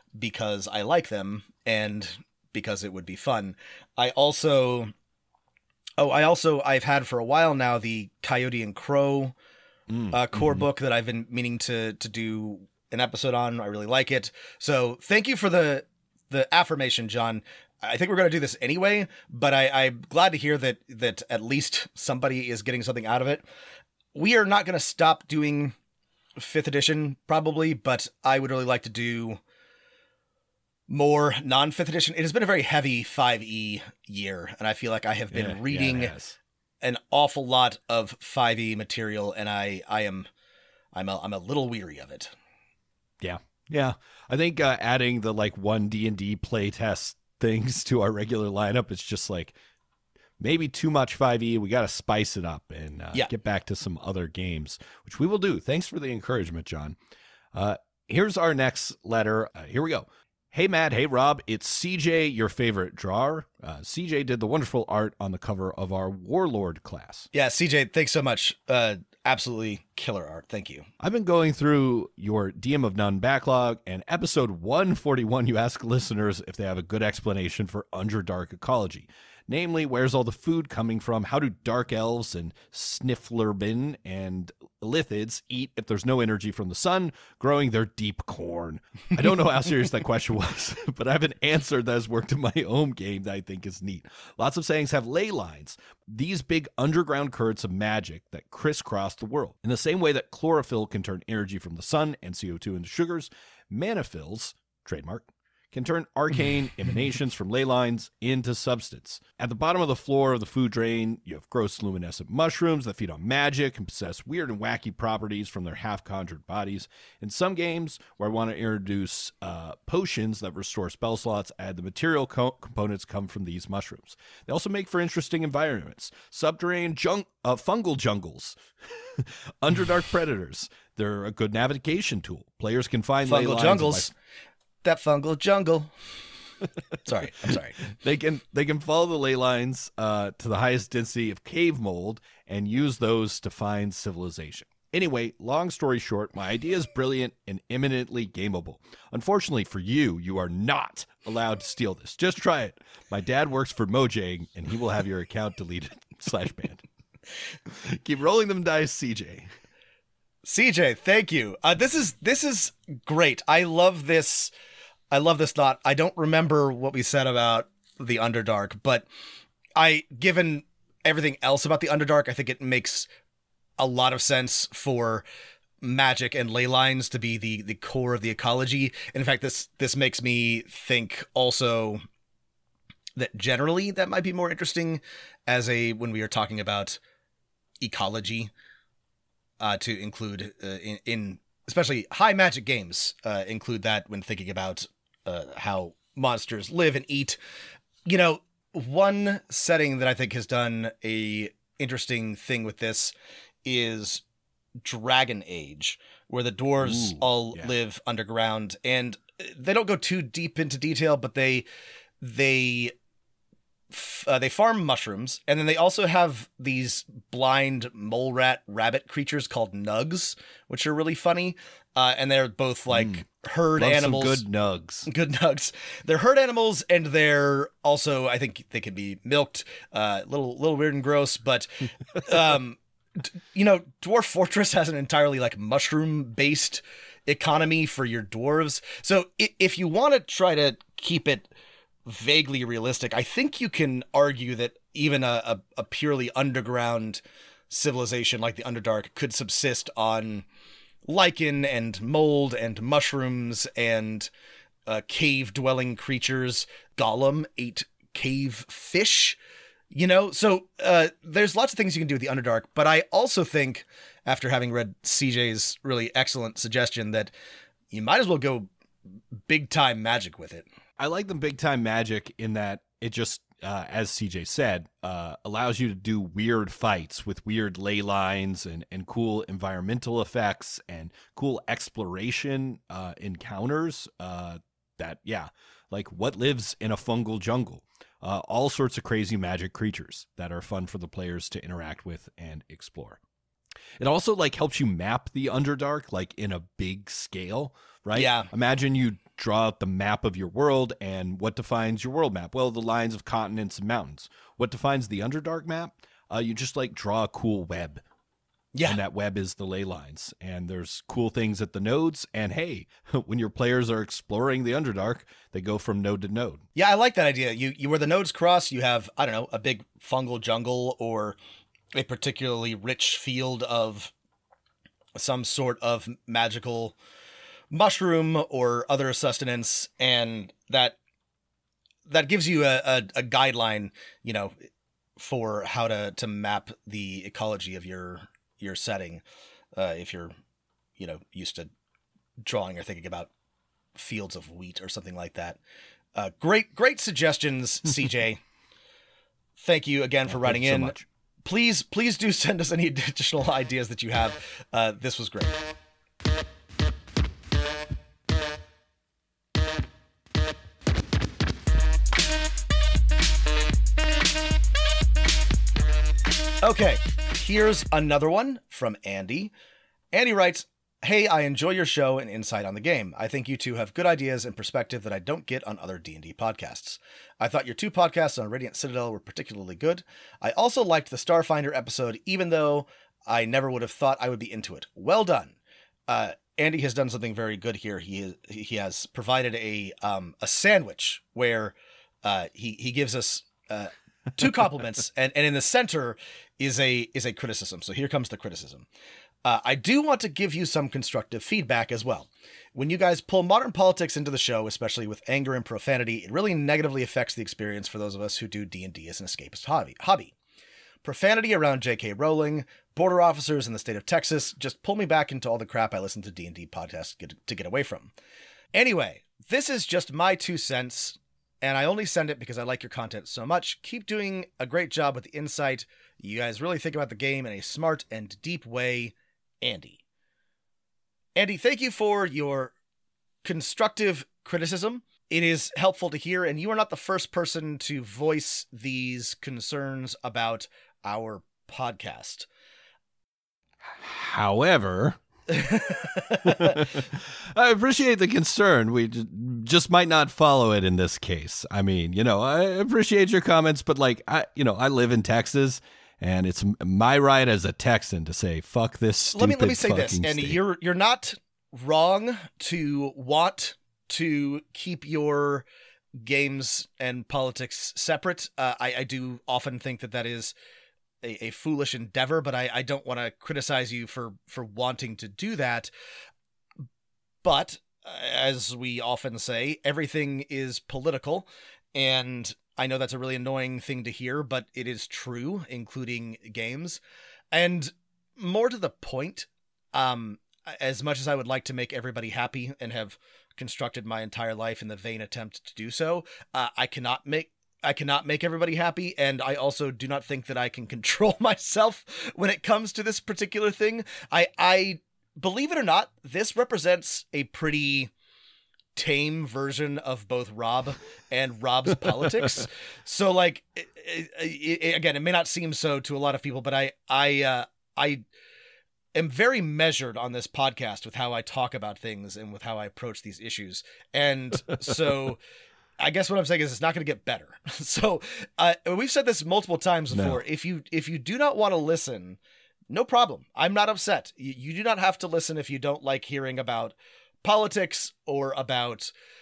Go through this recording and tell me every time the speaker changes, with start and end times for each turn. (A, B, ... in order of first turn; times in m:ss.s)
0:00.2-0:04.9 A
0:06.0-0:09.4 A
0:09.9-0:10.6 B
0:10.1-0:23.4 A
0:24.1-0:25.8 A
0:26.4-0:29.4 A
0:30.9-0:36.1 A
0:35.3-0:36.4 B
0:36.8-0:40.3 A
0:40.9-0:42.3 A
0:43.2-0:49.6 B
0:50.4-0:57.0 B
0:57.5-1:07.3 B
1:07.3-1:10.9 A
1:11.0-2:14.1 B
2:13.2-2:14.1 A
2:14.8-2:15.9 A
2:17.0-2:17.8 A
2:17.8-2:36.8 B
2:37.7-2:39.5 B
2:40.4-2:44.5 A
2:45.1-2:49.1 A
2:49.8-2:53.1 A
2:53.8-2:55.2 A
2:55.8-3:02.0 A
3:03.2-3:07.0 A
3:07.8-3:08.5 A
3:09.6-3:17.4 A
3:18.1-3:23.1 A
3:23.6-3:24.2 A
3:24.8-3:31.7 A
3:26.8-3:27.7 B
3:32.2-3:32.9 A
3:33.9-3:44.4 A
3:42.9-3:43.2 B
3:43.8-3:45.1 B
3:45.1-4:01.5 A
4:02.1-4:10.5 A
4:11.1-4:14.3 A
4:14.9-4:19.4 A
4:19.9-4:27.3 A
4:27.9-4:28.7 A
4:29.5-4:30.6 A
4:31.0-4:53.2 B
4:54.0-5:08.0 B
4:58.2-4:58.5 A
5:08.7-5:09.0 A
5:08.9-5:16.6 B
5:16.8-5:21.4 A
5:21.9-5:24.1 A
5:25.2-5:27.0 A
5:27.7-5:31.0 A
5:32.1-5:34.5 A
5:35.2-5:39.2 A
5:39.8-5:40.3 A
5:41.0-5:41.7 A
5:42.4-5:43.3 A
5:44.0-5:45.6 A
5:46.2-5:48.4 A
5:49.6-5:55.6 A
5:50.3-5:51.1 B
6:06.6-6:09.5 A
6:10.1-6:25.6 A
6:26.1-6:38.9 A
6:39.4-6:50.3 A
6:51.0-6:58.1 A
6:58.7-7:10.0 A
7:11.4-7:12.7 A
7:13.4-7:22.5 A
7:23.8-7:25.2 B
7:25.5-7:26.8 A
7:26.4-7:40.6 B
7:39.3-7:45.7 A
7:46.2-7:50.5 A
7:51.2-7:55.9 A
7:57.4-8:07.0 A
8:07.5-8:28.1 A
8:29.0-8:38.2 A
8:39.2-8:45.4 A
8:46.0-8:52.4 A
8:50.1-8:50.4 B
8:52.9-8:59.1 A